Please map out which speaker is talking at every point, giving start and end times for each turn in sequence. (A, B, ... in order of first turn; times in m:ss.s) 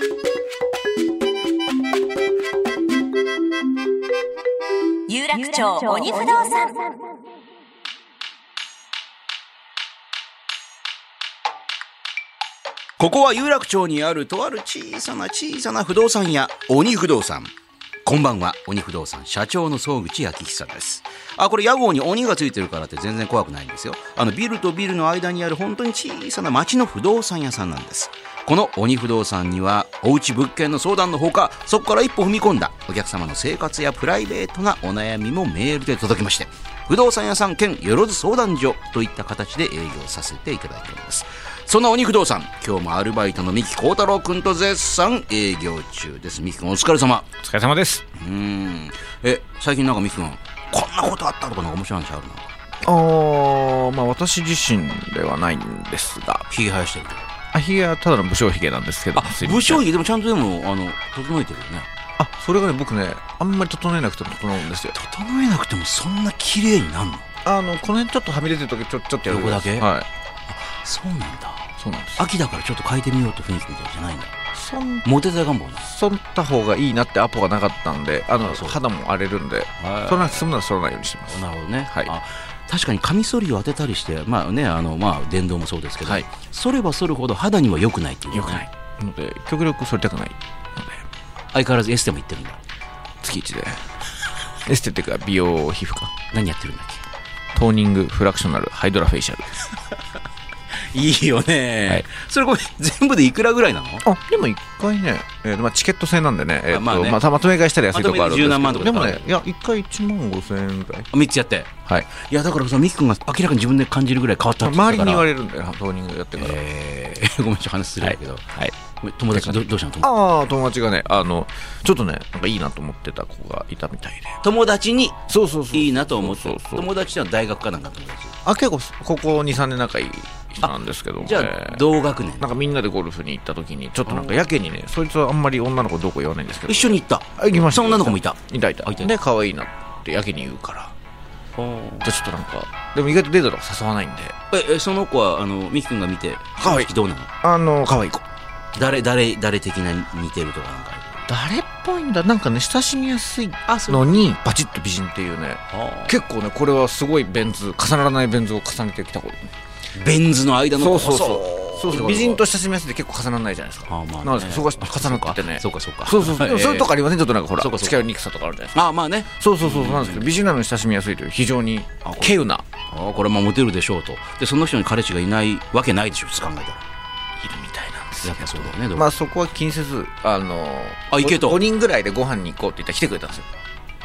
0:05.1-0:07.1 A
0:13.0-0:17.5 B
0:18.0-0:47.3 B
0:47.4-0:48.0 C
0:48.1-0:52.5 B
0:52.8-0:56.5 C
0:56.5-0:57.3 B
0:57.5-0:59.8 C
0:59.2-1:01.9 B
1:02.2-1:05.0 C
1:04.9-1:07.3 B
1:07.4-1:10.1 C
1:09.3-1:09.9 B
1:10.5-1:14.3 B
1:11.8-1:12.2 C
1:14.5-1:15.0 C
1:15.0-1:15.9 B
1:15.8-1:22.1 C
1:18.4-1:18.8 B
1:19.8-1:20.5 B
1:21.3-1:28.6 B
1:28.3-1:31.0 C
1:31.5-1:32.6 B
1:33.2-1:33.8 C
1:34.6-1:36.1 C
1:36.3-1:37.0 B
1:37.5-1:39.6 C
1:40.7-1:44.1 B
1:44.0-1:51.1 C
1:46.7-1:47.2 B
1:47.9-1:49.3 B
1:51.1-1:55.3 B
1:54.6-1:56.6 C
1:56.4-2:00.1 B
1:58.0-1:58.7 C
1:59.3-2:04.4 C
2:04.4-2:08.4 B
2:05.3-2:06.9 C
2:08.4-2:11.8 C
2:10.6-2:12.5 B
2:12.4-2:20.9 C
2:14.1-2:14.4 B
2:16.7-2:19.1 B
2:21.6-2:22.1 B
2:22.0-2:24.4 C
2:24.5-2:27.3 B
2:26.6-2:26.9 C
2:27.4-2:28.2 C
2:28.8-2:31.2 B
2:31.3-2:39.5 C
2:33.7-2:34.2 B
2:35.7-2:36.2 B
2:40.0-2:42.4 B
2:40.8-2:52.6 C
2:43.9-2:46.9 B
2:47.6-2:48.0 B
2:48.7-2:50.3 B
2:52.0-2:56.8 B
2:57.4-3:03.5 C
2:58.2-2:59.1 B
3:01.1-3:01.6 B